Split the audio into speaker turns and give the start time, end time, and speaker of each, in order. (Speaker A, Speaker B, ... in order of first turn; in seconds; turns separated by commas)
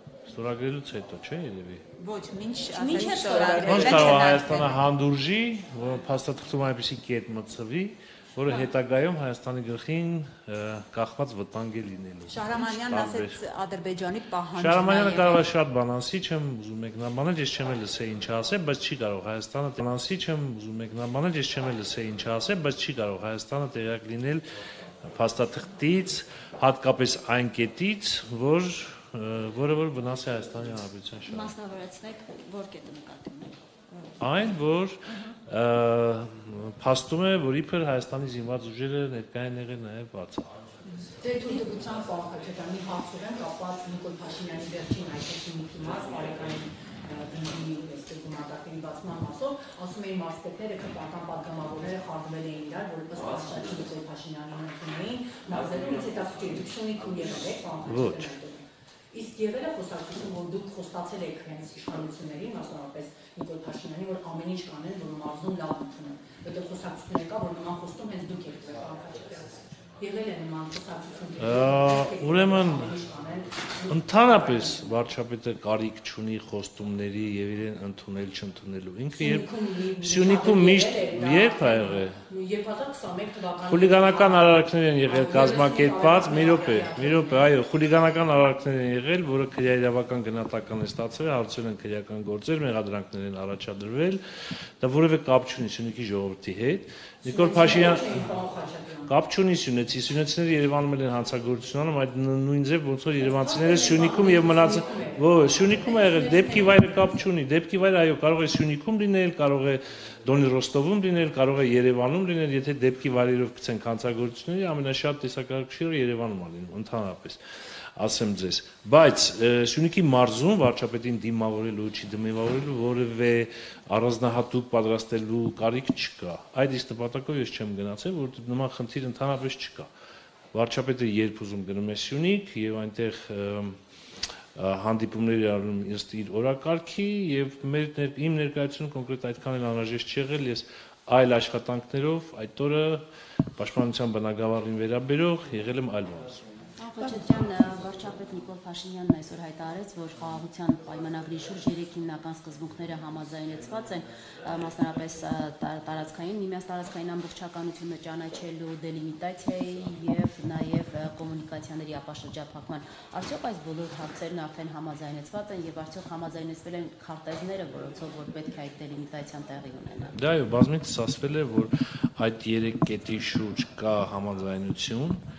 Speaker A: 0.3-1.8, Speaker B: 2.0-4.8, Speaker C: 2.7-4.7, Speaker A: 3.6-13.4, Speaker B: 12.3-15.4, Speaker A: 14.5-24.4, Speaker A: 25.0-31.5, Speaker C: 31.2-33.5, Speaker A: 34.2-40.5, Speaker C: 35.1-35.4, Speaker D: 41.2-74.9, Speaker A: 57.8-58.3, Speaker A: 71.3-73.0, Speaker A: 73.9-82.2, Speaker D: 79.1-84.5, Speaker A: 83.6-94.2, Speaker D: 85.1-87.5, Speaker A: 94.8-98.4, Speaker D: 97.2-99.1, Speaker A: 99.0-117.4, Speaker D: 103.2-107.2, Speaker A: 118.0-129.9, Speaker A: 130.5-133.8, Speaker A: 134.6-143.0, Speaker A: 143.6-146.4, Speaker E: 146.8-170.2, Speaker A: 170.2-175.2